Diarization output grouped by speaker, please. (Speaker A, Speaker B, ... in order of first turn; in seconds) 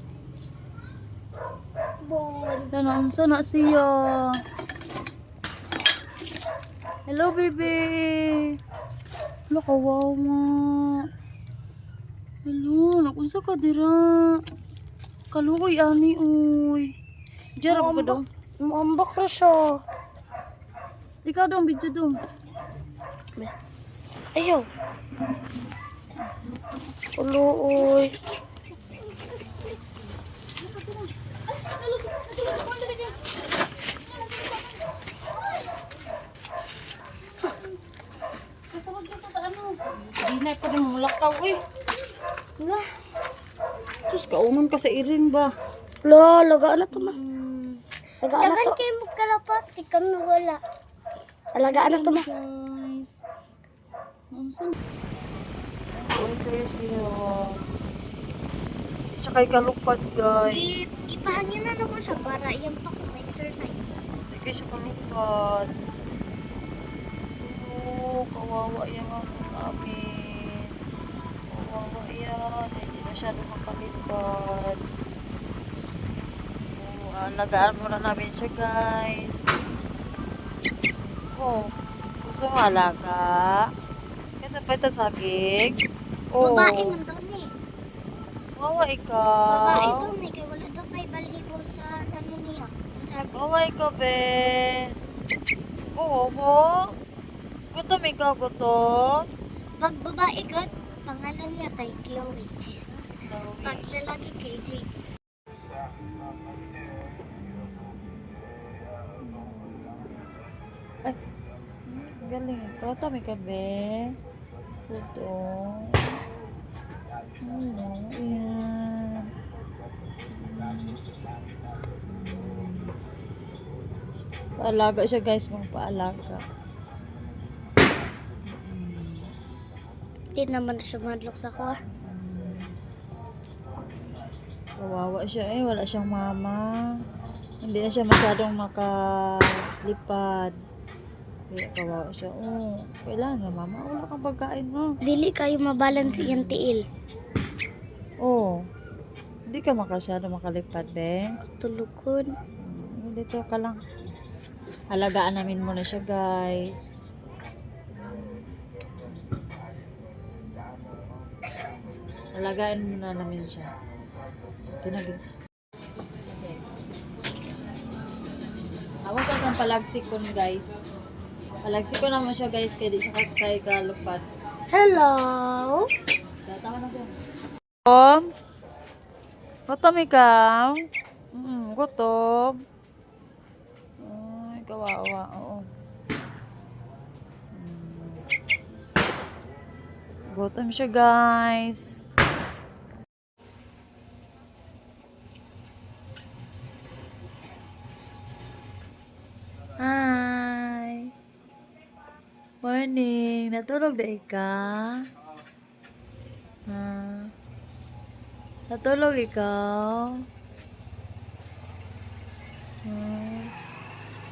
Speaker A: 2.0-2.7, 48.4-50.6, 60.5-63.8, 86.4-87.5, 89.5-93.3, 99.8-102.7, 103.6-104.8, 130.4-131.8, 145.1-146.8, 151.6-152.3, 174.7-175.9
Speaker B: 2.7-4.3, 7.1-8.5, 9.5-10.9, 12.5-14.2, 15.3-16.9, 17.6-18.2, 21.2-22.2, 31.8-33.1, 38.7-41.6, 44.1-45.5, 46.9-47.8, 51.6-53.2, 54.3-54.7, 55.9-57.3, 59.1-60.9, 64.3-65.7, 67.4-70.6, 71.5-74.8, 76.8-79.5, 81.3-81.6, 82.2-83.6, 84.4-85.7, 86.3-87.0, 88.6-90.1, 93.3-94.8, 96.0-96.8, 97.7-99.2, 100.7-101.0, 102.9-103.9, 107.3-108.2, 109.3-110.1, 111.9-114.2, 114.9-116.1, 117.4-119.3, 120.3-121.0, 122.1-122.9, 124.6-126.4, 128.6-129.2, 132.0-132.8, 134.8-136.6, 137.6-140.5, 141.5-144.9, 145.9-146.6, 148.2-148.5, 149.5-151.3, 152.6-153.8, 154.9-156.9, 162.4-163.7, 164.8-165.2, 166.3-166.8, 169.1-170.7, 171.6-174.2, 176.4-177.2, 177.9-178.3, 179.7-180.8, 181.3-182.6, 184.0-185.7, 187.6-188.2, 190.3-192.0, 199.8-201.1, 202.6-205.1, 206.7-207.3, 208.7-210.2, 212.8-213.5
Speaker C: 17.7-19.7, 24.4-24.7, 27.2-28.1, 46.0-47.2, 48.2-48.8, 51.5-52.3